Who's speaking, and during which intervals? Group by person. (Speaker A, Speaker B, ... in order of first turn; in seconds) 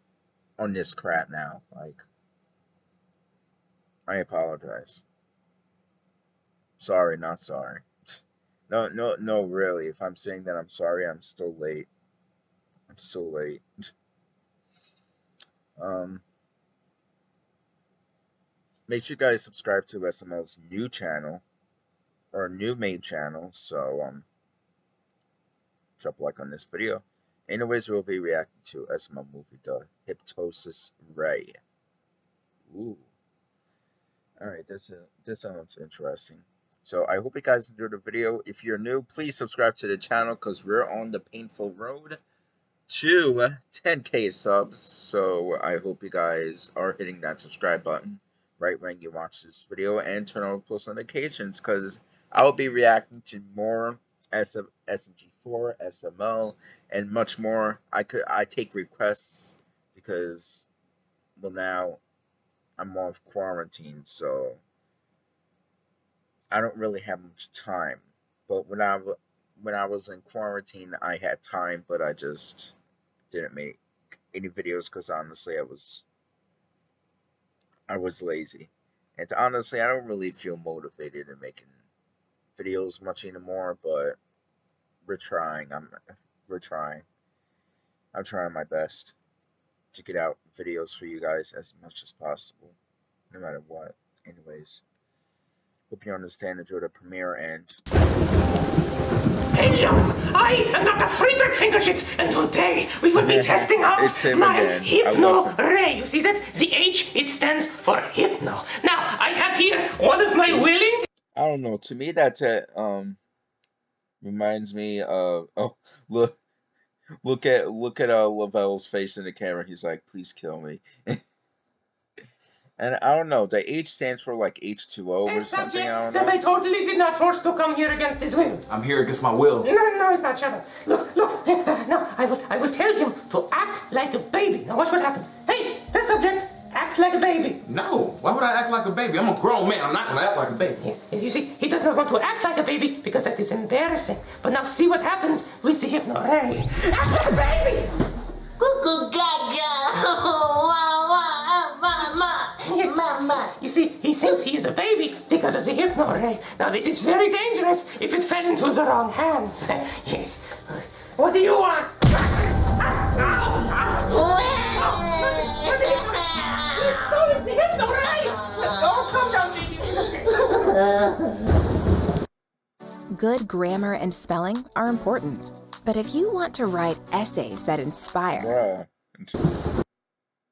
Speaker A: 0.6-2.0, 4.1-5.0, 6.8-11.9, 12.9-13.7, 15.8-16.2, 18.9-21.4, 22.3-24.3, 26.0-31.6, 32.7-33.1, 34.4-42.2, 42.9-60.7, 61.4-62.0, 62.8-64.6, 66.5-72.8, 73.3-73.8, 74.3-76.0, 77.9-81.7, 82.6-84.2, 85.0-86.0, 86.5-87.0, 88.1-89.2, 89.9-92.8, 93.3-94.8, 95.9-97.8, 103.2-105.6, 110.5-113.2, 114.2-116.4, 117.2-121.2, 122.8-126.4, 178.3-179.4
Speaker B: 99.5-111.0, 125.3-128.6, 129.6-137.6, 140.8-147.9, 152.6-170.8
Speaker C: 128.7-129.6, 137.7-140.8
Speaker D: 148.6-152.5, 153.0-153.4
Speaker E: 173.1-178.5